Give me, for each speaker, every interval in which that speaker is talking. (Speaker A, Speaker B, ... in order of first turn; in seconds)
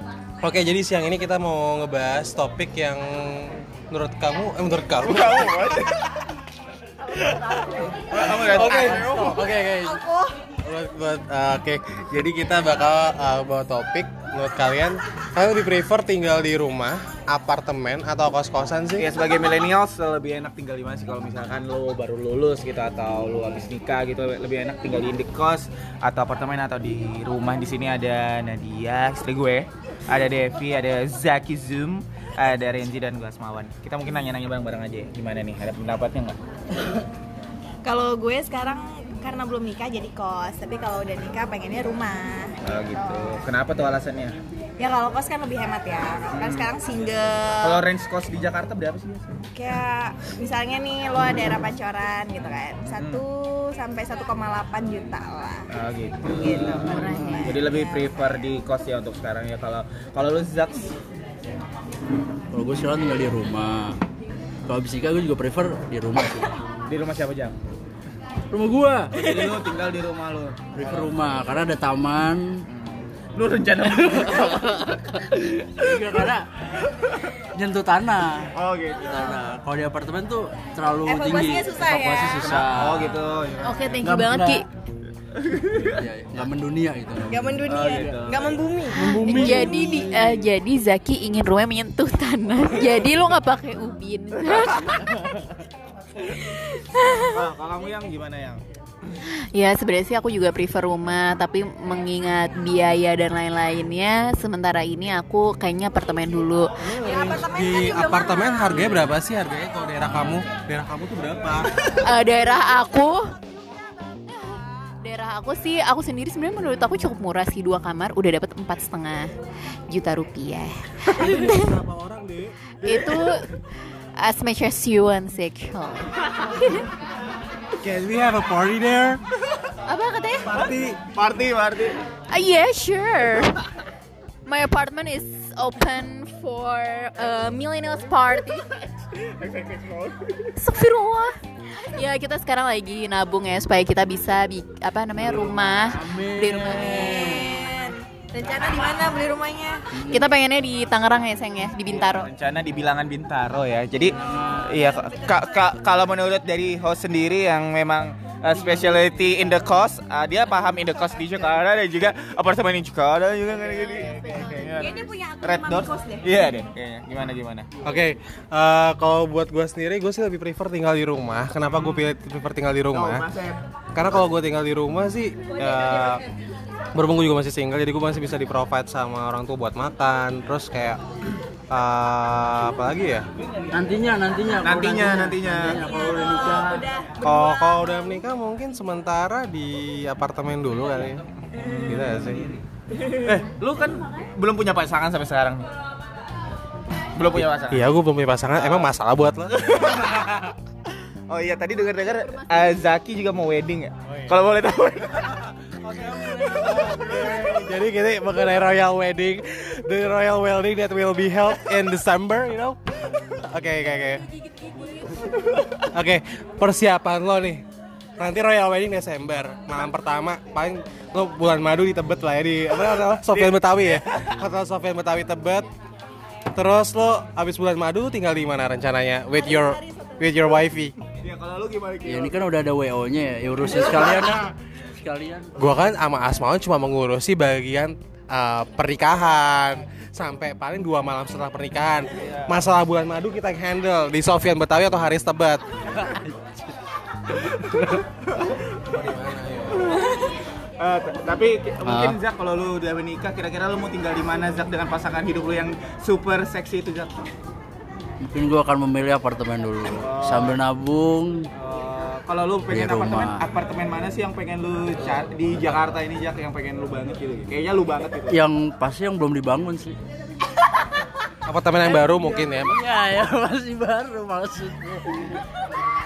Speaker A: 0.4-5.9, 7.1-10.0, 10.6-19.1, 106.8-111.9, 121.1-123.2, 127.8-129.2, 130.5-131.0, 167.8-173.3, 173.9-176.2, 176.9-181.0, 181.7-183.3, 187.1-192.5, 197.7-200.2, 205.8-214.3, 215.7-217.6, 218.2-225.7, 226.5-231.0, 235.6-246.1, 247.6-248.0, 248.8-250.1, 271.4-272.8
Speaker B: 5.0-6.1, 8.0-9.5, 19.0-36.4, 42.6-44.4, 46.3-46.7, 47.6-49.4, 53.0-53.2, 55.7-61.0, 66.9-67.6, 69.1-71.1, 72.7-75.8, 78.5-79.3, 82.3-84.0, 85.3-86.0, 87.6-88.6, 97.1-98.6, 130.6-132.0, 139.2-140.3, 151.9-167.7, 171.7-172.1, 172.9-173.6, 184.6-185.9, 191.5-192.5, 193.2-195.7, 197.2-197.9, 198.6-198.9, 199.9-200.5, 201.3-205.4, 223.4-224.0, 231.2-232.5, 242.2-242.6, 249.9-257.1, 260.0-260.6, 261.6-268.4
Speaker C: 10.0-10.3, 37.8-42.6, 44.8-47.8, 49.5-55.7, 56.3-57.6, 81.0-82.5, 87.3-89.7, 106.9-108.8, 146.8-149.9, 154.9-155.4, 164.2-166.2, 185.8-187.2
Speaker D: 56.9-58.0, 83.6-84.7, 89.3-95.5, 96.2-97.4, 99.5-106.9, 111.9-113.3, 114.3-119.3, 119.9-121.8, 122.8-123.5, 124.2-126.9, 129.9-130.5, 132.3-133.6, 134.5-138.7, 140.6-147.5, 150.0-152.3, 164.1-164.7, 202.2-202.7
Speaker E: 62.5-64.0, 64.7-66.6, 68.5-69.3, 70.7-72.7, 73.8-75.0, 75.6-83.3, 84.0-84.6, 85.9-87.5, 88.9-90.5, 145.2-147.5, 150.0-150.2, 154.1-154.7, 183.7-186.9, 232.0-235.6, 251.8-252.2, 258.2-261.5, 262.7-263.4, 268.3-270.0, 272.6-275.4